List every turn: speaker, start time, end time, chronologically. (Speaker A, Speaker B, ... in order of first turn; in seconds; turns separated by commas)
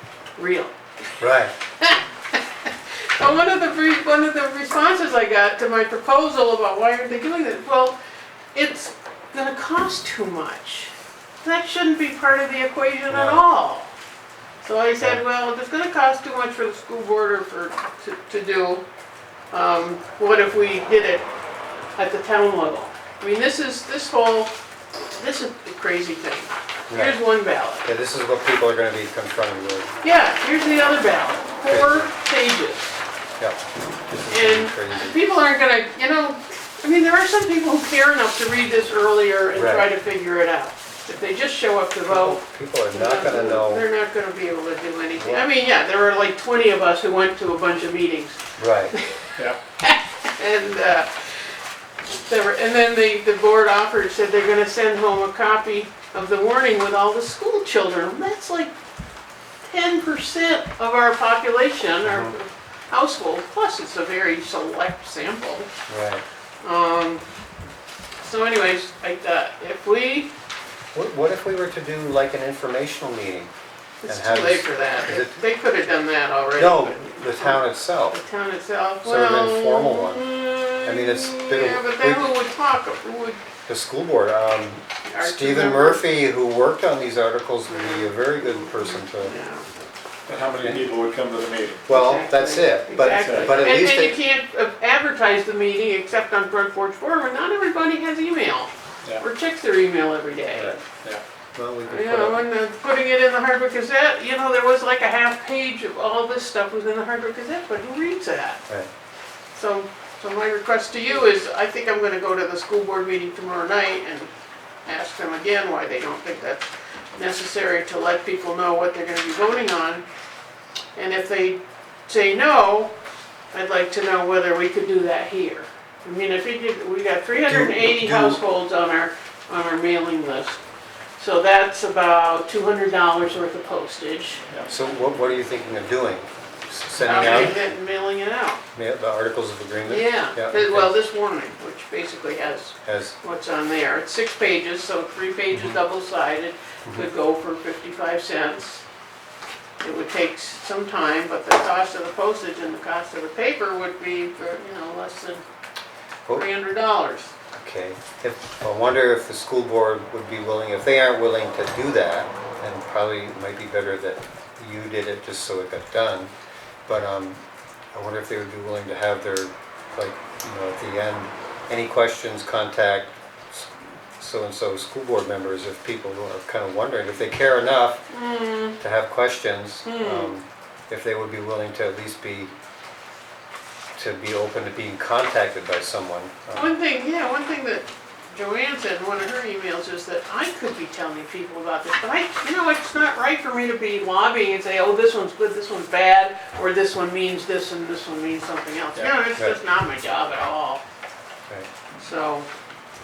Speaker A: 0.3-0.7, Speaker B: 1.2-1.5, Speaker A: 1.8-8.0, Speaker A: 8.5-13.9, Speaker B: 13.1-13.4, Speaker A: 14.6-18.8, Speaker A: 19.5-21.3, Speaker A: 22.0-24.5, Speaker A: 25.1-27.8, Speaker B: 26.9-27.2, Speaker B: 27.8-29.9, Speaker A: 30.0-33.0, Speaker B: 31.7-32.1, Speaker B: 33.4-35.1, Speaker A: 34.3-42.4, Speaker B: 39.5-39.9, Speaker B: 42.1-43.8, Speaker A: 42.9-48.4, Speaker B: 45.2-45.4, Speaker B: 48.6-48.9, Speaker A: 48.9-51.4, Speaker A: 52.2-58.7, Speaker A: 59.6-65.7, Speaker B: 62.0-62.3, Speaker B: 65.9-66.2, Speaker A: 66.6-67.2, Speaker A: 68.2-70.3, Speaker B: 70.9-73.5, Speaker A: 74.0-83.5, Speaker B: 74.1-75.4, Speaker B: 76.6-78.2, Speaker B: 79.0-82.3, Speaker B: 83.6-89.3, Speaker A: 85.0-86.0, Speaker A: 87.7-89.7, Speaker C: 90.3-91.9, Speaker B: 91.9-94.2, Speaker A: 91.9-100.8, Speaker C: 93.1-93.6, Speaker B: 101.6-102.5, Speaker A: 101.9-108.6, Speaker A: 109.5-114.3, Speaker A: 114.9-120.0, Speaker A: 121.0-123.0, Speaker A: 123.5-130.6, Speaker B: 127.5-128.4, Speaker A: 131.2-134.4, Speaker B: 134.7-137.6, Speaker A: 137.0-138.6, Speaker B: 138.7-140.9, Speaker A: 139.8-148.8, Speaker B: 142.8-143.1, Speaker B: 145.5-145.8, Speaker A: 149.8-155.4, Speaker A: 156.3-157.3, Speaker B: 157.5-166.3, Speaker B: 166.9-167.4, Speaker B: 167.9-178.0, Speaker A: 178.1-178.8, Speaker B: 178.8-182.5, Speaker A: 179.8-180.3, Speaker B: 183.9-186.7, Speaker A: 186.5-200.8, Speaker A: 202.0-202.5